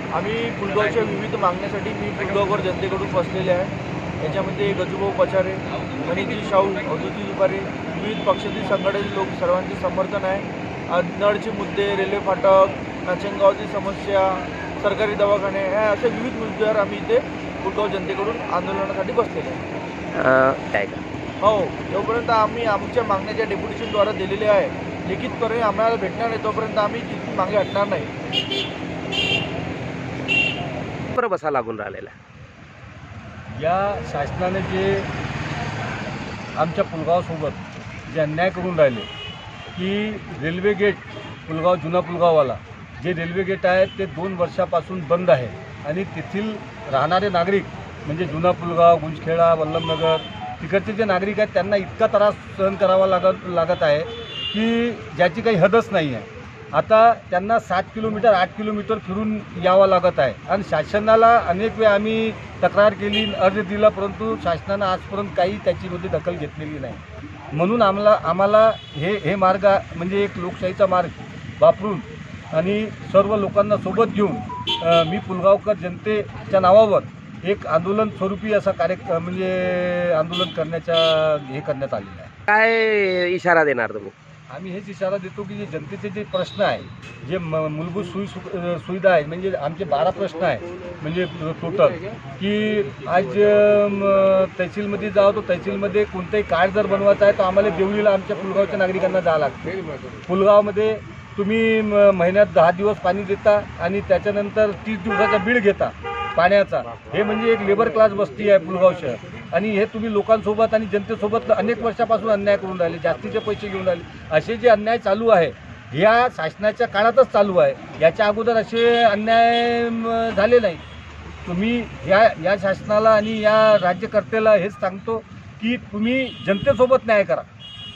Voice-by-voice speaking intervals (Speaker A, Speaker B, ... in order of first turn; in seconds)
Speaker A: 0.1-19.6, 21.4-28.1
Speaker B: 20.1-21.0, 31.1-32.1, 82.5-84.1
Speaker C: 33.5-35.1, 36.5-39.1, 39.7-67.0, 67.5-82.3, 84.5-99.7, 100.2-120.8, 121.4-127.5